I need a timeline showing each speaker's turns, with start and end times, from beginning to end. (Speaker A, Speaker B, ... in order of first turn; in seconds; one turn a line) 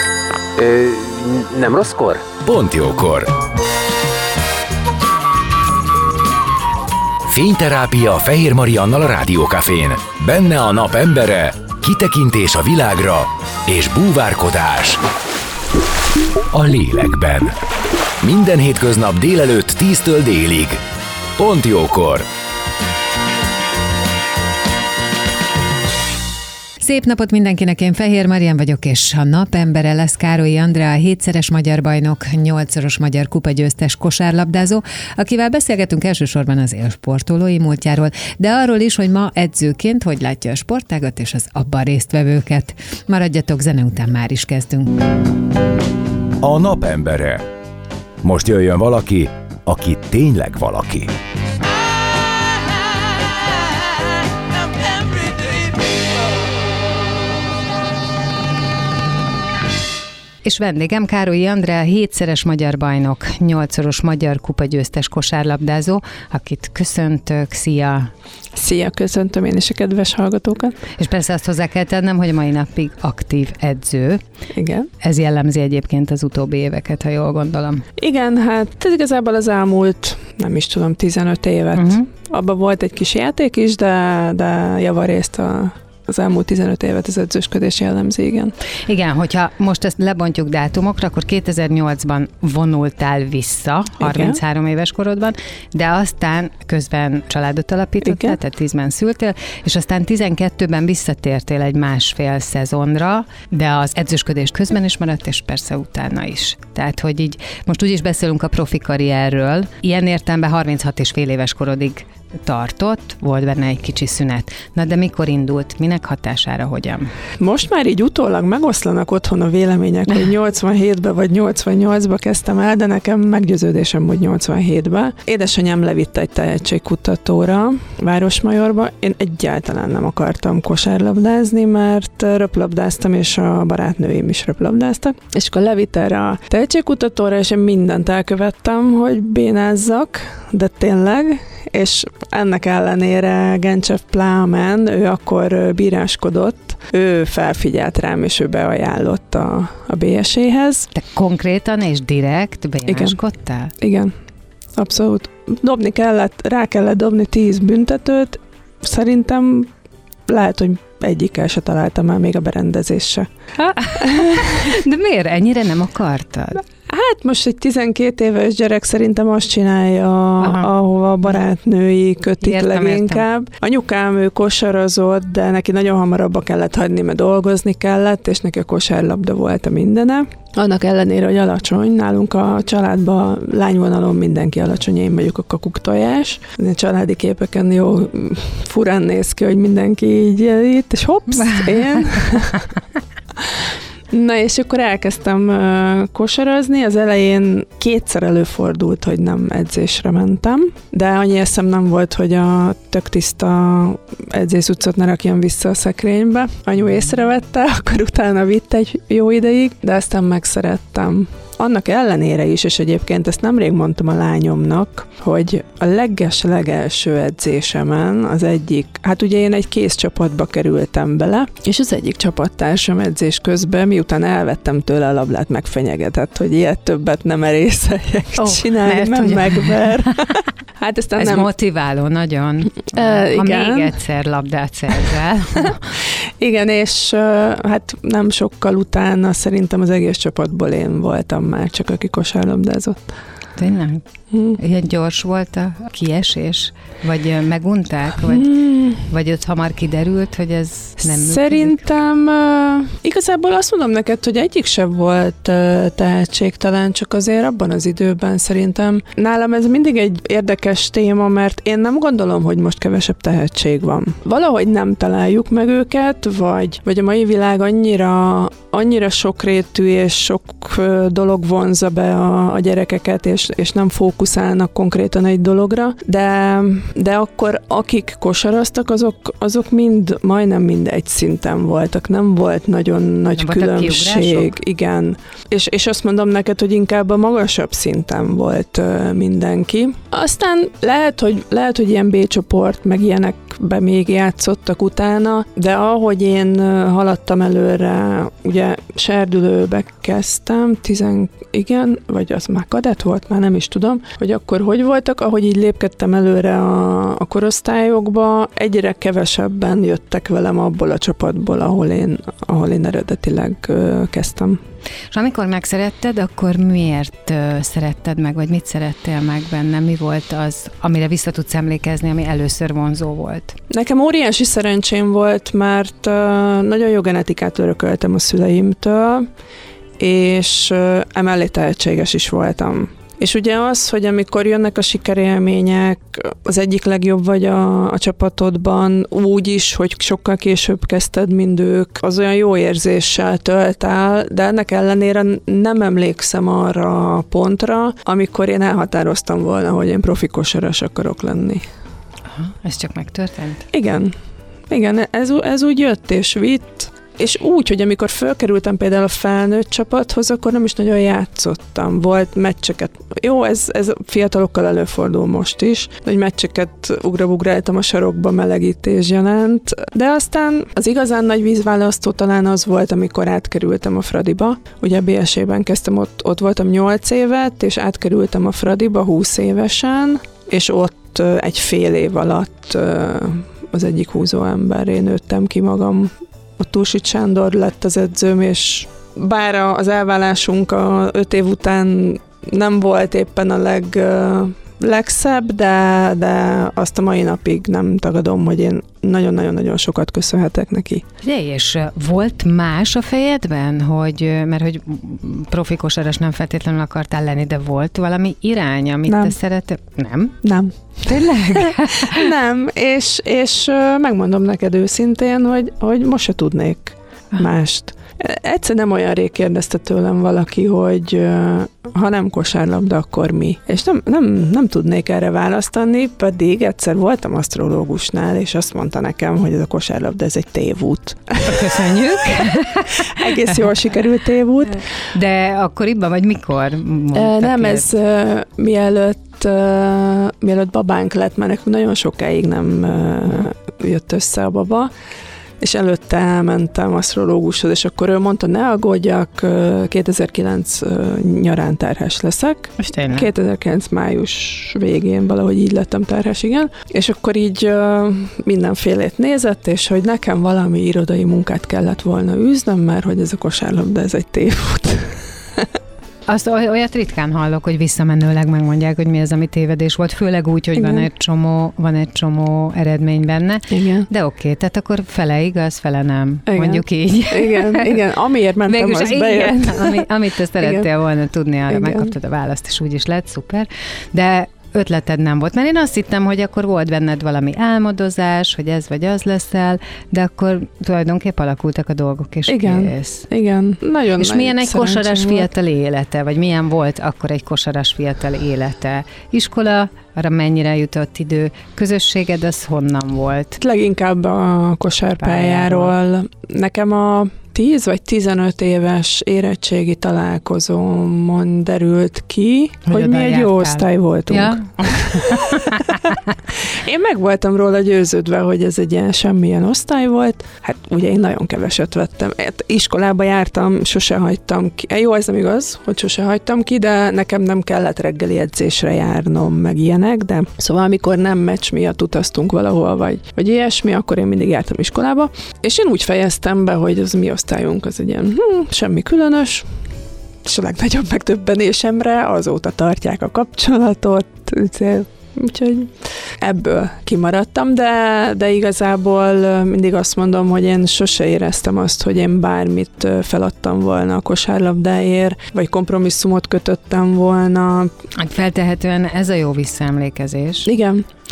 Speaker A: 0.6-3.3
Speaker A: 7.3-15.0
Speaker A: 16.5-17.6
Speaker A: 18.2-20.8
Speaker A: 21.4-22.3
Speaker B: 26.8-45.2
Speaker A: 46.4-47.4
Speaker A: 48.2-51.1
Speaker B: 60.4-68.1
Speaker C: 68.5-70.8
Speaker B: 71.0-74.2
Speaker C: 74.5-74.9
Speaker B: 75.0-77.8
Speaker C: 78.0-88.5
Speaker B: 81.8-82.1
Speaker B: 88.8-117.1
Speaker C: 94.0-94.4
Speaker C: 98.0-98.4
Speaker C: 117.4-150.9
Speaker B: 150.9-153.7
Speaker C: 152.9-153.2
Speaker C: 153.8-154.1
Speaker C: 154.8-159.7
Speaker C: 160.3-163.3
Speaker B: 163.6-166.6
Speaker C: 163.9-164.8
Speaker C: 166.8-192.7
Speaker B: 170.4-170.7
Speaker B: 172.4-173.2
Speaker B: 191.4-192.2
Speaker C: 193.4-231.5
Speaker B: 228.4-230.4
Speaker B: 231.2-235.9
Speaker C: 232.9-234.0
Speaker C: 235.6-243.2
Speaker B: 243.6-251.8
Speaker C: 244.3-244.6
Speaker C: 248.3-249.0
Speaker C: 251.0-314.6
Speaker B: 283.4-284.5
Speaker B: 315.1-323.6
Speaker C: 323.7-329.3
Speaker C: 330.0-351.6
Speaker B: 352.3-353.7
Speaker C: 353.7-354.2
Speaker C: 354.7-401.1
Speaker B: 401.2-410.4
Speaker C: 409.1-409.4
Speaker C: 410.4-434.9
Speaker B: 411.0-412.3
Speaker B: 431.5-433.6
Speaker B: 434.9-437.9
Speaker C: 437.1-444.9
Speaker C: 445.6-465.7
Speaker B: 452.8-453.3
Speaker B: 466.3-478.0
Speaker C: 470.8-471.1
Speaker C: 473.7-474.1
Speaker C: 476.5-480.1
Speaker B: 478.7-493.3
Speaker C: 480.6-480.9
Speaker C: 481.7-482.1
Speaker C: 492.5-495.5
Speaker B: 494.2-503.6
Speaker C: 503.6-516.0
Speaker B: 505.2-505.9
Speaker B: 512.9-516.3
Speaker C: 516.6-539.8
Speaker C: 540.4-557.9
Speaker B: 558.1-560.7
Speaker C: 560.6-561.1